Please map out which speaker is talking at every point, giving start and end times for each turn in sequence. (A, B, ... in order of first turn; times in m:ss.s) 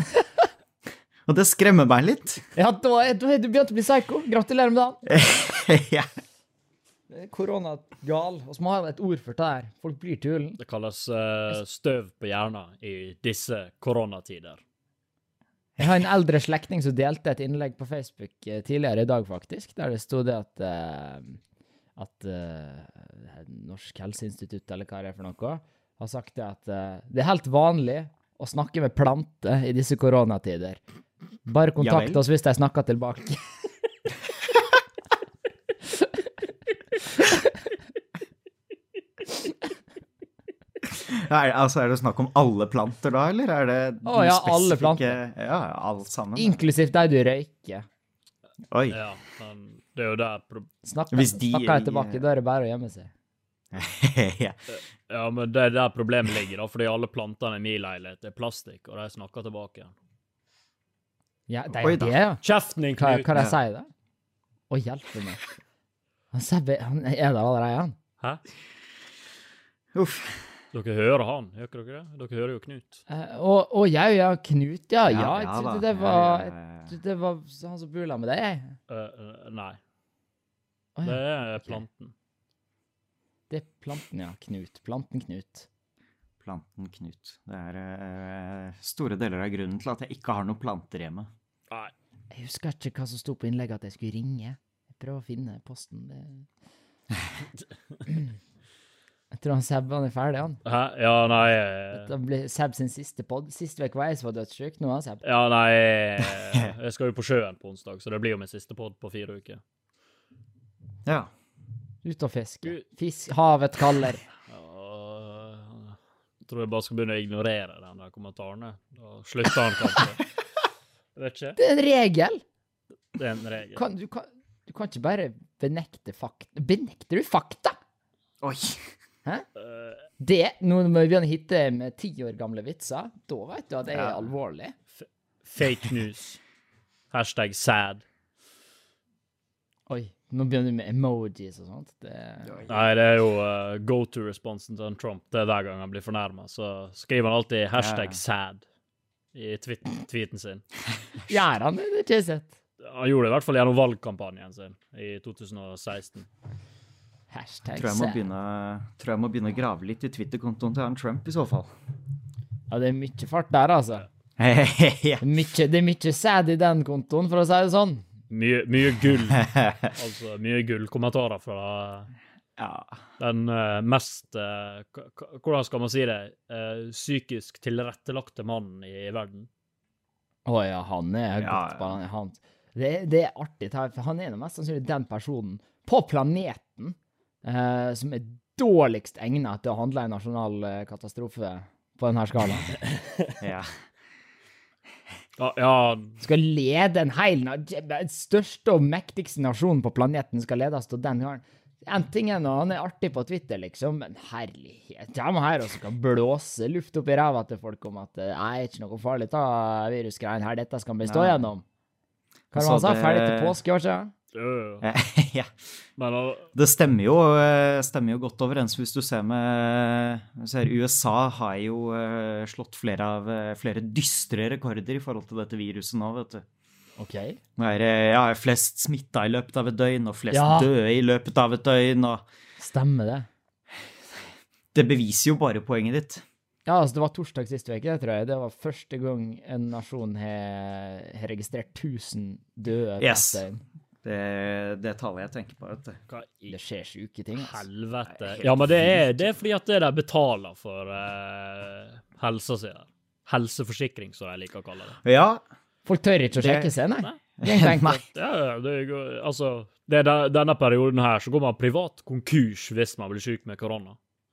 0:01.3-0:02.5 A
0:02.5-0:05.2 B
0:05.1-0:06.1 A
0:07.1-0:10.6 B
0:10.6-0:14.6 C
0:15.8-0:21.4 B
0:22.0-0:30.8 B
0:31.4-0:33.4 B
0:31.8-0:32.2 A
0:40.8-0:46.6 A
0:44.0-0:45.2 B
0:46.4-0:47.8 B
0:48.7-0:49.0 A
0:48.9-0:50.7 C
0:50.8-0:53.1 B
0:51.1-0:52.2 A
0:53.7-0:54.6 A
0:54.7-0:59.9 C
1:01.5-1:02.4 B
1:01.8-1:02.2 A
1:02.4-1:03.3 C
1:03.0-1:03.9 B
1:04.7-1:05.4 B
1:06.3-1:08.0 B
1:09.9-1:10.5 A
1:10.7-1:13.0 C
1:13.1-1:18.8 B
1:15.1-1:16.9 A
1:18.9-1:19.8 C
1:21.0-1:21.8 B
1:21.0-1:22.1 C
1:23.5-1:25.7 B
1:26.4-1:31.3 A
1:32.3-1:36.5 B
1:39.3-1:40.6 B
1:40.6-1:42.1 C
1:41.9-1:45.2 B
1:45.2-1:49.6 C
1:52.0-1:54.2 B
1:54.5-2:00.2 C
2:01.2-2:01.6 C
2:01.6-2:02.4 B
2:03.1-2:03.8 C
2:03.7-2:07.8 B
2:08.4-2:08.9 A
2:09.6-2:10.0 C
2:10.2-2:14.7 B
2:13.9-2:14.3 A
2:15.0-2:16.4 C
2:17.1-2:18.0 C
2:19.9-2:22.6 B
2:22.4-2:22.8 A
2:22.7-2:28.6 C
2:27.8-2:28.2 A
2:29.3-2:30.6 C
2:31.3-2:32.5 B
2:32.8-2:36.3 C
2:37.3-2:38.2 B
2:37.8-2:41.7 A
2:42.7-2:44.0 B
2:44.4-2:45.2 A
2:45.2-2:48.1 B
2:48.3-2:52.1 C
2:49.4-2:49.9 A
2:52.6-2:53.0 A
2:53.2-2:59.5 C
3:00.4-3:12.7 B
3:01.4-3:01.9 A
3:13.4-3:13.7 A
3:15.4-3:16.2 C
3:16.2-3:31.6 B
3:31.0-3:31.4 A
3:32.5-3:34.1 B
3:32.5-3:33.6 A
3:34.3-3:34.8 C
3:34.8-3:35.5 A
3:36.0-3:36.5 C
3:36.5-3:46.4 A
3:47.0-3:47.4 B
3:47.6-3:52.2 A
3:50.3-3:50.7 B
3:52.6-3:53.3 B
3:54.7-3:56.2 A
3:56.7-4:03.6 B
4:03.0-4:03.4 A
4:04.0-4:06.0 A
4:06.1-4:06.5 C
4:06.5-4:07.6 B
4:07.4-4:15.0 C
4:08.1-4:09.1 A
4:15.0-4:15.4 A
4:15.8-4:18.0 B
4:16.4-4:16.7 A
4:17.4-4:18.0 A
4:18.1-4:24.0 C